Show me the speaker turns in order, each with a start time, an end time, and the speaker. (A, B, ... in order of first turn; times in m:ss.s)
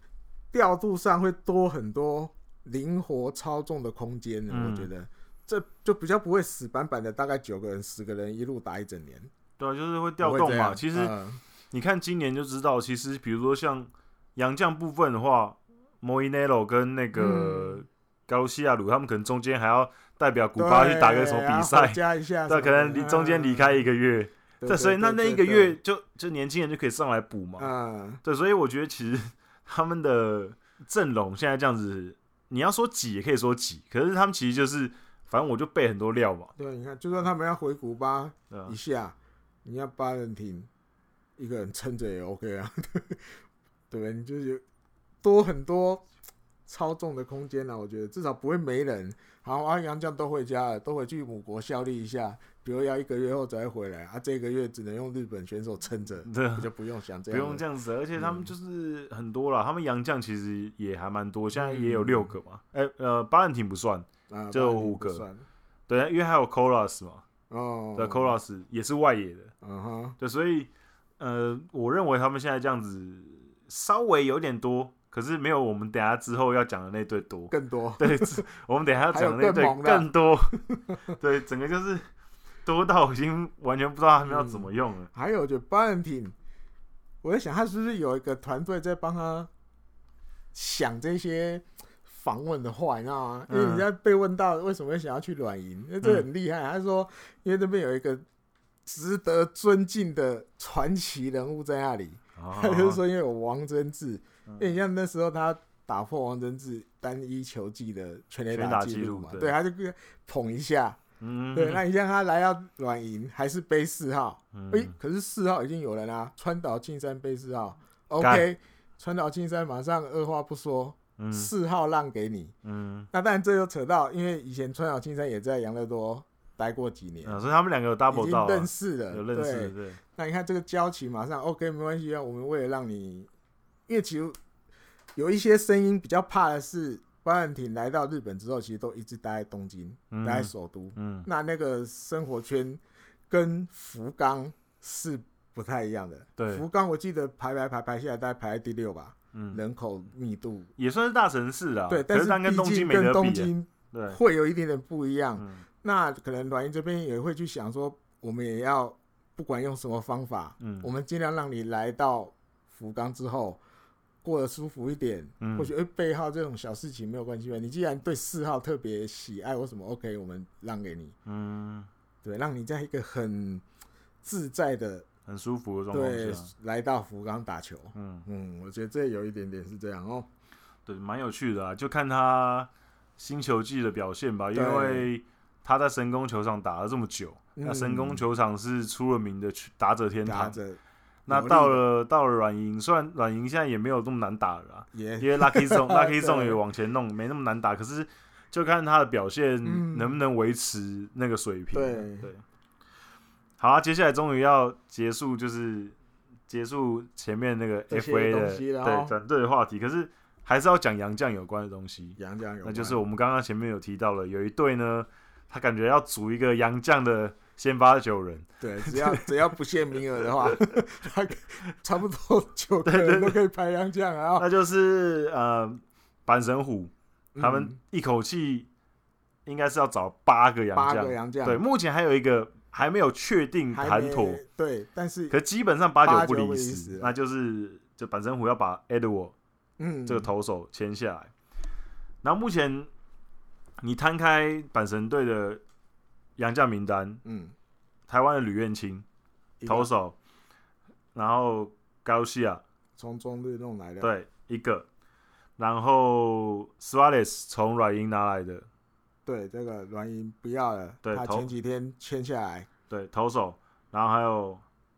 0:00.5-0:09.3 A
0:04.5-0:04.9 B
0:09.6-0:11.1 B
0:10.2-0:11.4 A
0:11.7-0:27.7 B
0:17.1-0:17.8 A
0:20.6-0:23.9 A
0:24.6-0:25.8 A
0:27.6-0:28.2 A
0:28.2-0:36.5 B
0:36.6-0:40.7 A
0:41.4-0:43.4 A
0:43.9-0:44.6 A
0:45.2-0:46.1 A
0:46.7-0:57.6 A
0:56.2-0:56.7 B
0:57.3-1:05.2 B
0:58.2-0:58.5 A
1:01.6-1:02.3 A
1:04.3-1:05.4 A
1:05.9-1:07.2 B
1:07.5-1:08.4 A
1:08.0-1:09.5 B
1:09.6-1:10.2 A
1:10.2-1:22.1 B
1:17.5-1:18.4 A
1:19.1-1:20.1 A
1:20.7-1:21.0 A
1:22.6-1:25.1 B
1:24.2-1:26.4 A
1:27.2-1:29.5 A
1:30.5-1:38.2 A
1:33.5-1:33.9 B
1:38.8-1:51.0 A
1:42.4-1:43.0 B
1:44.5-1:44.7 B
1:48.5-1:49.6 B
1:51.2-1:51.8 B
1:51.5-2:02.5 A
1:54.5-1:54.9 B
1:58.2-1:58.5 B
2:01.2-2:01.5 B
2:02.6-2:03.1 B
2:03.1-2:07.4 A
2:07.2-2:10.0 B
2:08.1-2:13.3 A
2:13.9-2:14.4 A
2:15.1-2:30.7 A
2:20.1-2:21.3 B
2:26.4-2:26.6 B
2:29.3-2:29.6 B
2:30.8-2:34.2 B
2:31.9-2:43.6 A
2:35.4-2:35.6 B
2:40.6-2:40.9 B
2:44.2-2:51.1 A
2:45.4-2:45.7 B
2:51.3-2:51.9 B
2:52.2-2:53.6 A
2:54.2-2:55.1 A
2:55.3-2:56.5 B
2:55.9-3:00.3 A
2:57.9-2:58.3 B
3:00.9-3:10.6 B
3:04.5-3:05.1 A
3:07.6-3:08.2 A
3:10.2-3:11.8 A
3:11.3-3:22.4 B
3:14.9-3:16.6 A
3:19.6-3:20.2 A
3:21.7-3:22.3 A
3:23.6-3:26.0 B
3:26.5-3:39.3 B
3:27.9-3:29.1 A
3:32.2-3:33.0 A
3:38.6-3:44.5 A
3:42.8-3:43.4 B
3:44.4-3:48.7 B
3:47.4-3:47.8 A
3:49.5-3:54.4 B
3:50.8-3:51.6 A
3:53.7-3:55.4 A
3:55.3-3:59.3 B
3:56.0-3:57.1 A
3:59.8-4:00.3 A
4:00.1-4:01.3 B
4:02.2-4:02.9 B
4:03.8-4:05.6 B
4:06.4-4:07.2 B
4:07.2-4:07.6 A
4:08.1-4:09.0 B
4:09.6-4:09.9 A
4:09.6-4:10.2 B
4:11.1-4:12.6 B
4:13.0-4:14.1 A
4:14.0-4:14.9 B
4:15.6-4:18.7 B
4:19.3-4:22.7 A
4:21.0-4:21.5 B
4:22.9-4:24.6 B